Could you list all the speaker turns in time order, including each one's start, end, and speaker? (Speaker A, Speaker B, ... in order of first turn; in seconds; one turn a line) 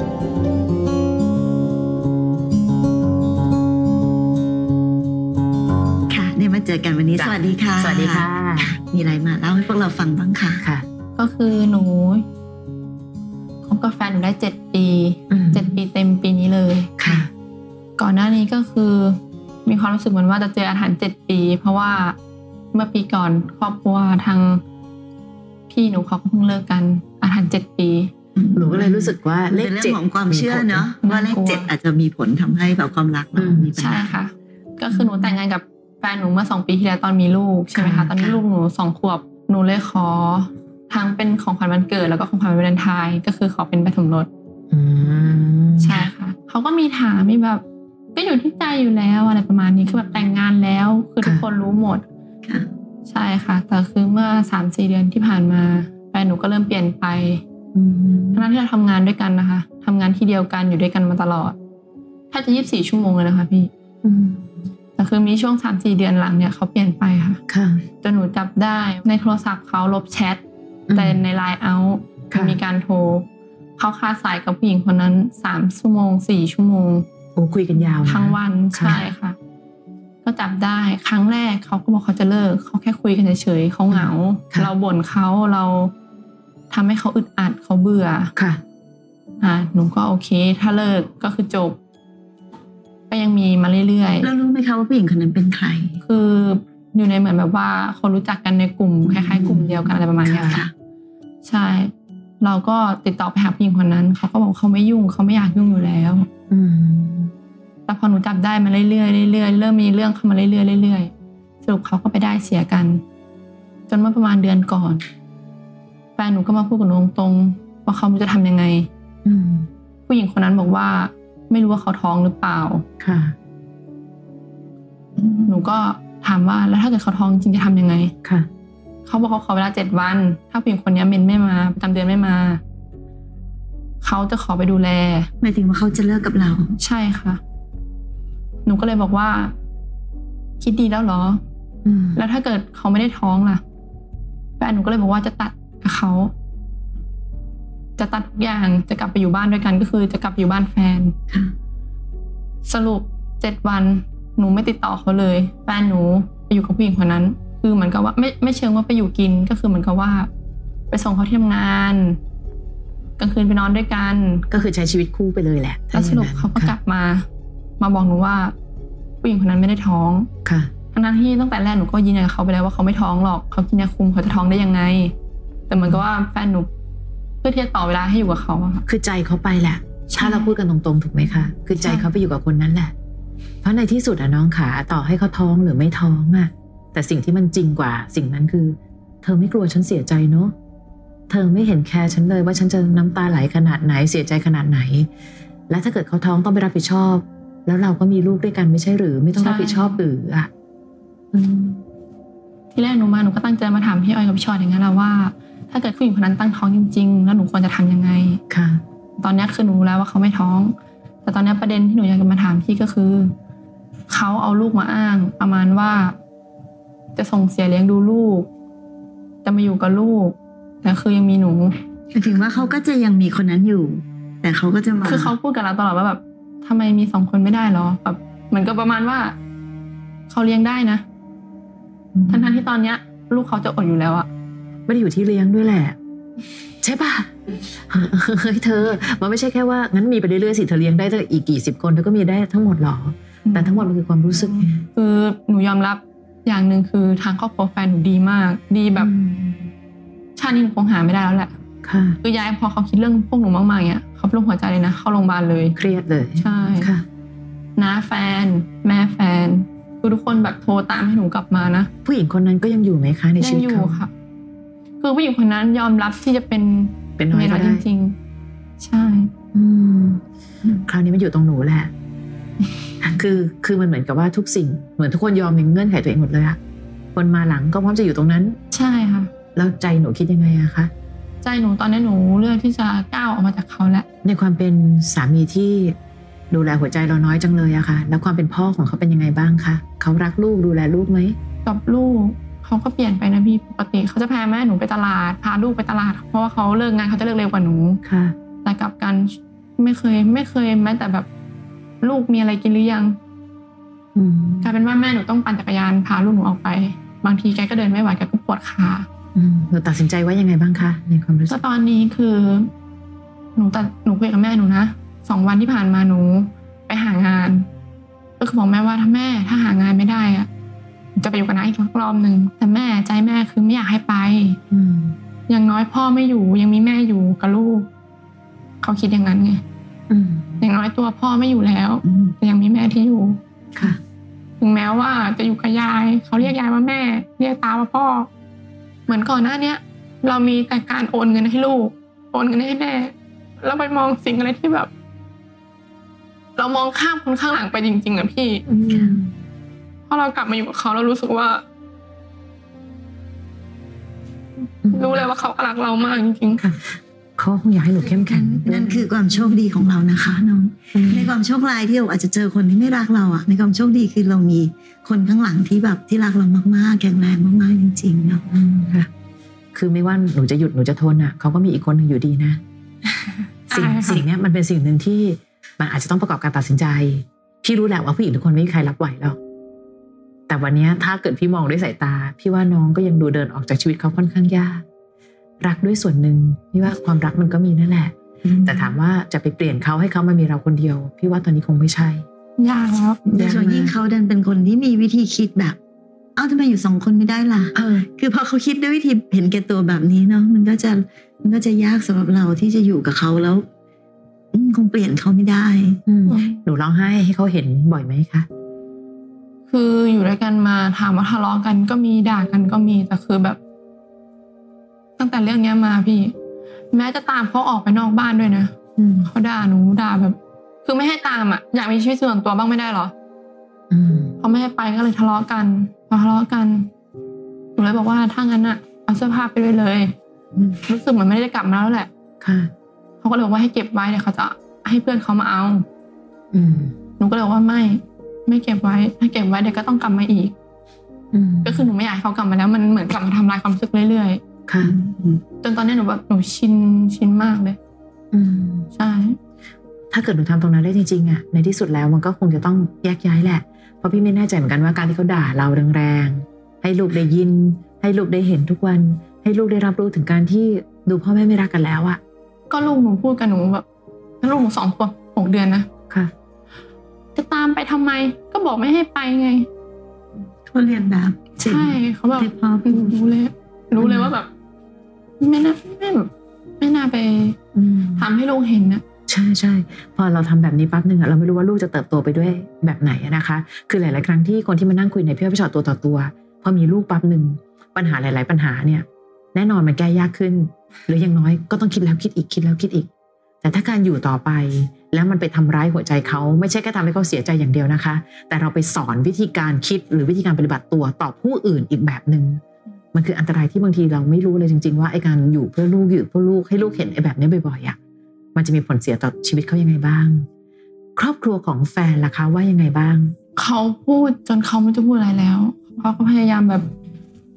Speaker A: 6.1-10.6
Speaker B: 7.2-8.8
Speaker C: 11.2-12.2
Speaker C: 13.7-17.0
Speaker B: 15.3-15.7
Speaker B: 17.0-17.3
Speaker C: 18.0-22.2
Speaker C: 22.7-24.6
Speaker C: 25.7-28.1
Speaker A: 28.4-34.2
Speaker B: 28.6-30.9
Speaker C: 31.0-31.7
Speaker B: 33.4-33.7
Speaker C: 33.8-44.3
Speaker B: 37.7-38.1
Speaker B: 44.7-46.0
Speaker C: 45.8-47.6
Speaker C: 48.1-52.0
Speaker C: 53.1-57.4
Speaker B: 57.7-58.5
Speaker C: 58.4-61.6
Speaker C: 62.3-63.7
Speaker B: 64.0-64.5
Speaker C: 65.0-67.4
Speaker B: 67.5-67.8
Speaker C: 68.0-70.4
Speaker B: 70.9-71.2
Speaker C: 70.9-73.3
Speaker B: 72.3-72.6
Speaker C: 73.8-77.1
Speaker B: 77.3-79.0
Speaker C: 78.0-79.4
Speaker C: 80.2-85.9
Speaker B: 83.9-84.7
Speaker C: 86.7-88.3
Speaker B: 88.4-88.6
Speaker C: 89.4-91.8
Speaker C: 93.1-94.3
Speaker A: 94.2-96.0
Speaker C: 96.0-100.6
Speaker A: 99.0-100.7
Speaker B: 99.4-100.6
Speaker C: 101.5-106.3
Speaker B: 106.5-107.3
Speaker C: 107.9-111.1
Speaker C: 111.6-113.0
Speaker C: 113.9-115.0
Speaker C: 116.2-118.9
Speaker B: 119.2-119.7
Speaker C: 120.1-122.8
Speaker B: 123.0-123.3
Speaker A: 125.2-125.5
Speaker C: 125.5-128.1
Speaker C: 129.1-132.6
Speaker C: 134.0-135.3
Speaker A: 135.4-136.8
Speaker C: 136.8-137.4
Speaker C: 138.7-139.5
Speaker C: 140.6-141.4
Speaker B: 141.8-142.2
Speaker C: 142.2-143.6
Speaker C: 144.6-146.3
Speaker C: 148.0-151.2
Speaker C: 152.7-160.3
Speaker C: 160.9-162.2
Speaker C: 163.2-164.5
Speaker B: 164.5-166.8
Speaker C: 165.9-167.3
Speaker C: 167.8-168.5
Speaker C: 169.2-170.3
Speaker B: 170.4-170.7
Speaker C: 170.9-175.1
Speaker C: 175.7-176.7
Speaker C: 177.4-178.8
Speaker B: 178.9-182.9
Speaker C: 180.1-180.5
Speaker C: 181.8-182.1
Speaker B: 183.6-190.5
Speaker B: 191.3-195.1
Speaker B: 195.7-200.5
Speaker C: 199.4-200.0
Speaker B: 201.3-201.8
Speaker C: 202.7-208.4
Speaker B: 208.5-208.8
Speaker C: 209.2-213.3
Speaker C: 214.1-216.2
Speaker C: 217.2-218.5
Speaker C: 219.4-221.8
Speaker A: 222.1-225.3
Speaker C: 225.0-229.4
Speaker C: 230.3-231.0
Speaker A: 232.1-232.6
Speaker C: 232.3-234.3
Speaker B: 234.9-236.0
Speaker B: 236.8-244.8
Speaker C: 243.4-249.1
Speaker B: 248.9-249.7
Speaker C: 250.4-251.5
Speaker B: 251.8-252.2
Speaker C: 252.2-255.8
Speaker B: 255.8-257.1
Speaker C: 256.4-256.9
Speaker C: 257.8-261.9
Speaker B: 262.1-264.0
Speaker C: 263.4-264.1
Speaker C: 265.0-268.1
Speaker B: 267.2-267.9
Speaker C: 268.8-269.3
Speaker B: 269.5-270.2
Speaker B: 270.7-271.9
Speaker B: 273.0-276.6
Speaker B: 277.1-278.6
Speaker C: 278.7-279.3
Speaker B: 279.6-280.9
Speaker C: 281.4-284.1
Speaker B: 284.2-285.9
Speaker B: 286.5-291.4
Speaker C: 291.6-298.0
Speaker B: 298.0-298.4
Speaker C: 298.6-301.3
Speaker C: 302.0-303.2
Speaker B: 304.1-304.7
Speaker C: 304.6-309.1
Speaker B: 309.4-311.6
Speaker C: 311.5-312.7
Speaker C: 313.6-317.7
Speaker C: 318.4-320.5
Speaker C: 321.2-324.6
Speaker B: 324.7-325.2
Speaker C: 325.5-327.9
Speaker C: 328.8-329.6
Speaker B: 330.1-330.6
Speaker C: 330.6-333.4
Speaker A: 332.1-332.4
Speaker C: 334.6-338.3
Speaker C: 339.1-344.9
Speaker C: 346.6-348.6
Speaker B: 348.7-349.3
Speaker C: 350.1-351.6
Speaker B: 354.8-355.2
Speaker C: 354.9-356.6
Speaker B: 356.6-359.1
Speaker A: 358.0-368.4
Speaker B: 360.9-361.3
Speaker B: 368.5-369.1
Speaker B: 369.7-372.6
Speaker C: 373.3-374.2
Speaker B: 373.7-379.4
Speaker B: 380.5-384.8
Speaker B: 385.6-392.2
Speaker A: 388.4-388.9
Speaker C: 392.6-393.2
Speaker A: 393.3-395.8
Speaker B: 393.3-393.9
Speaker A: 396.4-403.7
Speaker B: 397.8-398.1
Speaker A: 404.5-406.0
Speaker B: 406.1-408.5
Speaker C: 406.3-406.6
Speaker C: 409.7-413.6
Speaker C: 415.2-416.3
Speaker C: 416.9-418.7
Speaker B: 419.0-419.3
Speaker C: 419.2-423.1
Speaker B: 423.9-424.4
Speaker C: 424.4-426.9
Speaker C: 427.8-430.1
Speaker C: 430.8-432.1
Speaker B: 432.4-432.7
Speaker C: 433.2-435.9
Speaker B: 436.5-436.9
Speaker C: 437.2-440.5
Speaker B: 441.3-441.9
Speaker C: 441.6-444.4
Speaker B: 444.7-445.0
Speaker A: 444.8-445.4
Speaker C: 445.6-447.8
Speaker B: 448.3-448.9
Speaker C: 448.9-449.4
Speaker B: 450.1-462.2
Speaker C: 462.7-463.9
Speaker C: 464.4-465.9
Speaker C: 467.4-469.7
Speaker A: 470.7-473.2
Speaker C: 471.6-474.5
Speaker B: 474.0-474.3
Speaker C: 475.4-477.6
Speaker B: 477.8-478.3
Speaker C: 478.2-479.0
Speaker B: 479.3-493.1
Speaker B: 493.6-502.6
Speaker B: 503.1-508.0
Speaker B: 508.6-510.4
Speaker B: 511.2-513.3
Speaker C: 513.6-516.9